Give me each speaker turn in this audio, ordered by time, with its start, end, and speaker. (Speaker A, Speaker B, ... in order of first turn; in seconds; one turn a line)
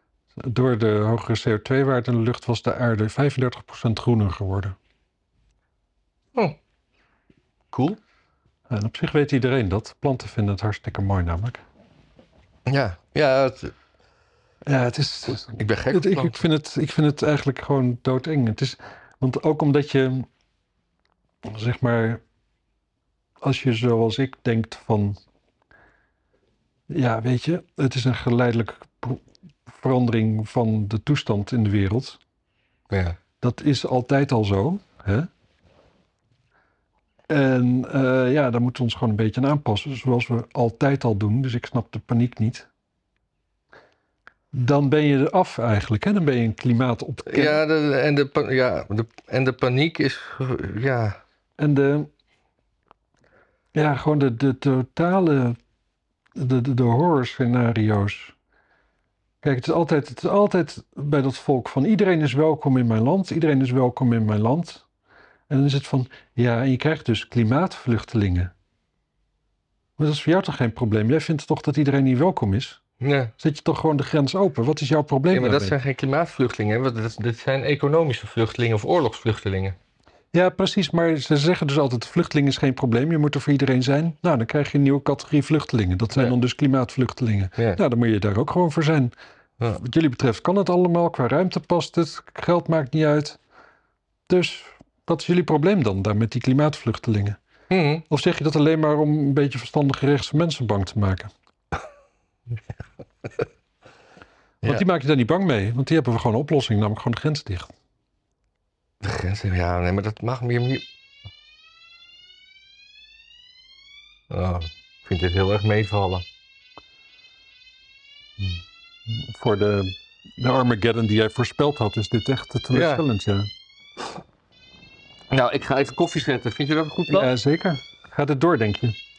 Speaker A: 0.4-4.8
Speaker B: 7.7-8.0
Speaker A: 8.7-11.6
Speaker B: 12.7-13.7
Speaker A: 14.6-20.3
Speaker B: 15.6-16.4
Speaker A: 21.4-22.2
Speaker A: 23.4-25.2
Speaker A: 26.9-32.2
Speaker B: 32.9-33.2
Speaker A: 33.4-35.3
Speaker A: 37.3-42.7
Speaker A: 44.5-47.6
Speaker B: 47.2-51.2
Speaker A: 51.6-52.1
Speaker A: 53.7-55.6
Speaker A: 56.4-58.3
Speaker A: 59.4-64.8
Speaker A: 65.5-68.5
Speaker A: 70.0-72.8
Speaker B: 73.0-73.3
Speaker A: 73.4-75.7
Speaker B: 75.3-79.8
Speaker A: 80.3-89.1
Speaker A: 89.7-93.4
Speaker A: 94.3-97.4
Speaker B: 97.7-98.0
Speaker A: 98.1-101.3
Speaker A: 104.6-107.7
Speaker B: 109.0-110.8
Speaker B: 114.3-116.2
Speaker A: 118.4-123.5
Speaker B: 122.7-123.0
Speaker B: 125.3-127.3
Speaker A: 127.1-129.0